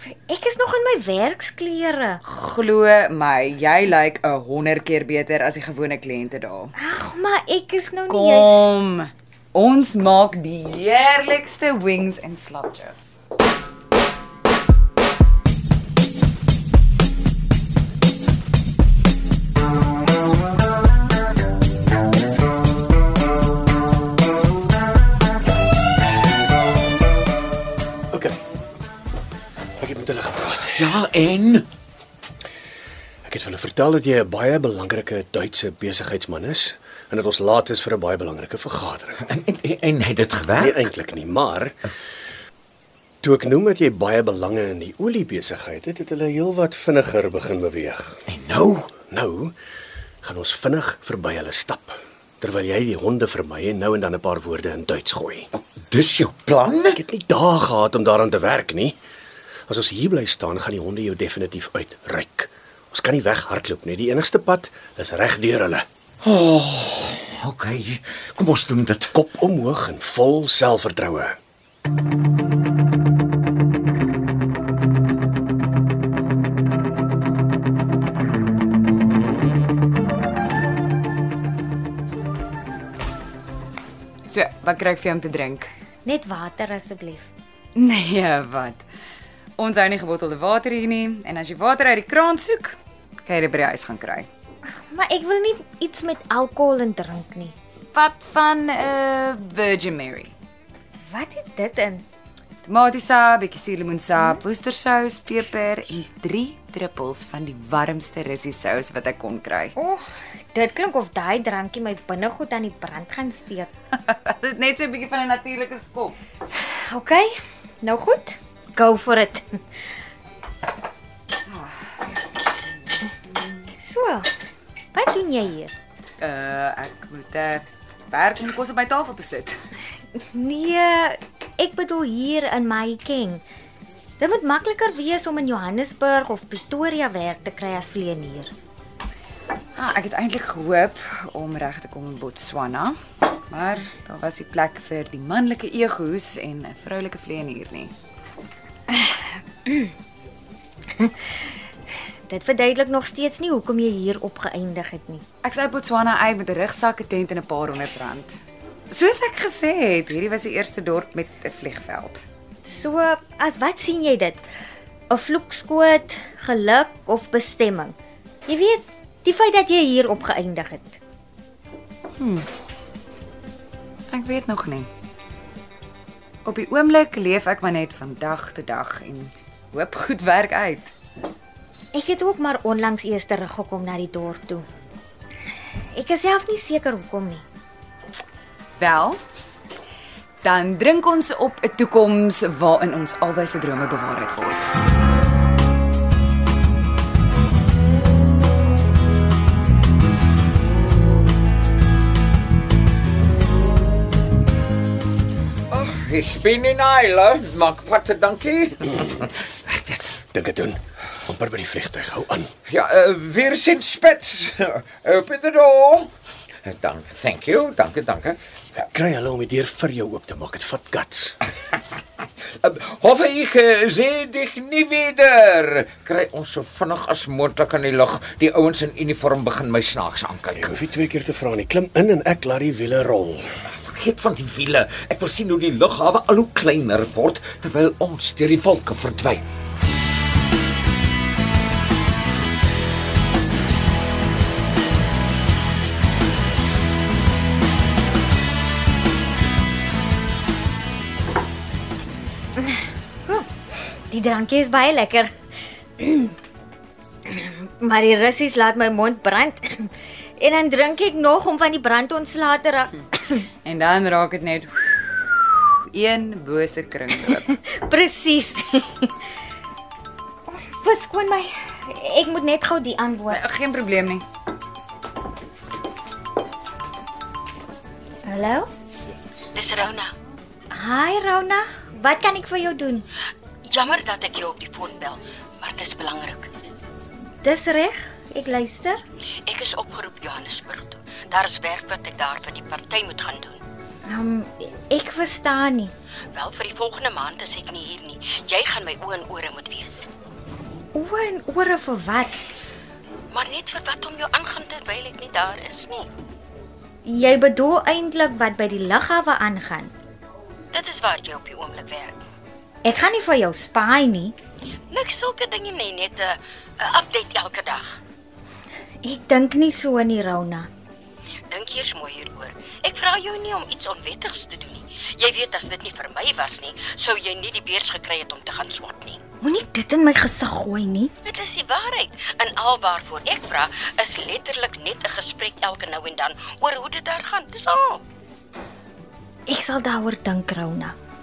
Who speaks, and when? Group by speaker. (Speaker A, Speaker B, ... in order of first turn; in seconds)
Speaker A: 0.3-2.2, 6.8-8.6, 86.0-87.3, 94.8-97.5, 101.1-102.0, 109.8-110.0, 110.5-113.7, 116.6-119.6, 123.8-124.3, 124.9-125.7, 130.2-133.4, 134.2-138.5, 152.3-155.2, 162.7-164.4, 165.1-167.9, 168.5-171.0, 181.9-184.7, 185.9-187.4, 252.6-253.5, 254.1-255.3, 256.0-256.4, 257.3-263.4, 267.4-269.1, 270.5-273.4, 278.3-278.7, 280.7-283.1, 287.4-289.0, 294.1-295.9, 300.9-302.6, 307.1-309.9, 312.8-314.4, 319.0-320.7, 329.4-331.1, 339.5-340.9
Speaker B: 2.2-6.8, 8.1-13.2, 84.3-85.7, 87.8-88.9, 89.6-94.3, 97.9-100.3, 102.7-109.8, 113.9-116.2, 121.5-122.2, 122.8-123.7, 126.2-129.6, 139.8-143.0, 143.5-147.9, 155.4-158.4, 158.9-162.2, 172.2-172.5, 174.1-174.9, 176.4-180.9, 188.8-189.2, 190.4-194.7, 263.6-265.3, 265.9-267.5, 273.3-274.2
Speaker C: 28.1-28.4, 29.8-31.0, 33.3-39.2, 40.6-41.9, 43.2-48.2, 49.1-49.5, 50.2-55.5, 56.9-59.0, 59.7-65.9, 69.1-71.4, 210.3-212.5, 218.9-221.4, 230.6-233.6
Speaker D: 30.7-31.7, 39.2-40.9, 48.3-48.9, 55.5-57.0, 66.2-69.2, 205.7-210.0, 212.7-216.1, 216.7-218.4, 222.4-230.8, 233.7-239.5
Speaker E: 279.5-280.1, 283.6-286.5, 289.4-293.6, 296.3-300.1, 303.3-306.1, 310.7-312.1, 314.9-318.0, 321.5-329.2, 331.2-338.0